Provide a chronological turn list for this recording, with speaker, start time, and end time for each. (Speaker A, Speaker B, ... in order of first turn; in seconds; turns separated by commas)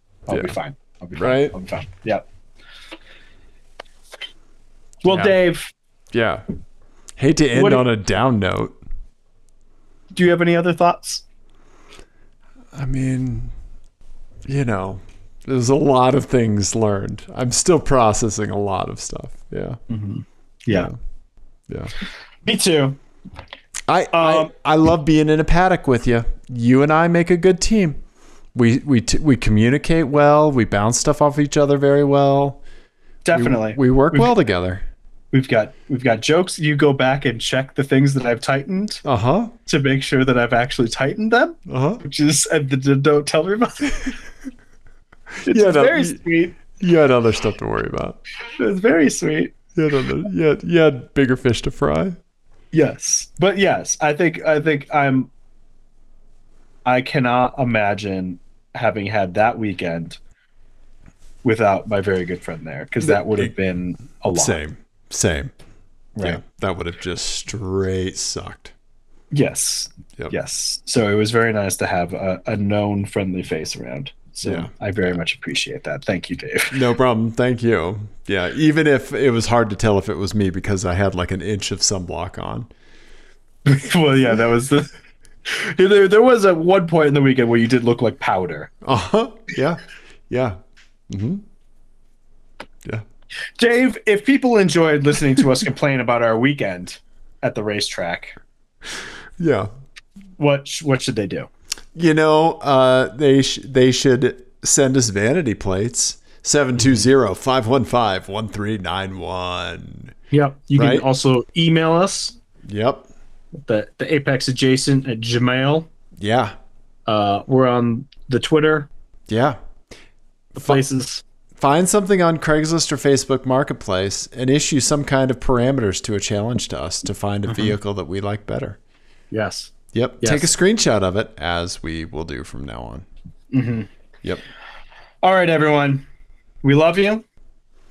Speaker A: 0.3-2.2, Speaker B: 1.1-1.5, Speaker A: 5.0-5.7, Speaker B: 5.1-5.4, Speaker B: 6.1-6.4, Speaker B: 7.2-8.8, Speaker A: 7.5-7.8, Speaker A: 10.1-11.2, Speaker B: 12.7-13.5, Speaker B: 14.4-19.8, Speaker A: 19.9-20.9, Speaker B: 20.7-20.9, Speaker A: 22.4-23.0, Speaker B: 23.9-28.0, Speaker A: 24.1-24.5, Speaker B: 28.5-32.6, Speaker A: 33.2-34.3, Speaker B: 33.3-34.8, Speaker A: 35.3-39.0, Speaker B: 39.0-39.5, Speaker A: 39.6-44.1, Speaker B: 41.7-42.0, Speaker B: 45.4-46.2, Speaker A: 45.5-46.6, Speaker B: 46.7-48.2, Speaker A: 48.6-49.5, Speaker B: 49.7-52.2, Speaker A: 52.7-55.3, Speaker A: 56.9-60.2, Speaker A: 61.4-64.6, Speaker B: 63.0-63.5, Speaker B: 64.3-65.5, Speaker A: 66.2-66.4, Speaker B: 66.2-68.7, Speaker A: 69.3-76.9, Speaker B: 74.4-75.2, Speaker B: 76.7-82.7, Speaker A: 83.6-84.9, Speaker A: 85.5-88.7, Speaker B: 88.8-90.5, Speaker B: 91.1-91.4, Speaker A: 93.6-98.3, Speaker B: 99.4-99.7, Speaker A: 100.4-101.5, Speaker B: 101.9-110.1, Speaker A: 106.8-107.1, Speaker A: 110.3-112.4, Speaker B: 110.8-111.0, Speaker B: 112.7-113.1, Speaker A: 113.6-115.9, Speaker B: 116.2-116.5, Speaker A: 117.1-118.9, Speaker B: 119.3-119.6, Speaker B: 120.5-120.8, Speaker A: 120.5-121.2, Speaker B: 121.6-128.8, Speaker A: 127.5-127.8, Speaker A: 129.3-130.5, Speaker B: 129.9-133.1, Speaker A: 133.5-133.9, Speaker A: 135.2-136.0, Speaker A: 136.6-137.2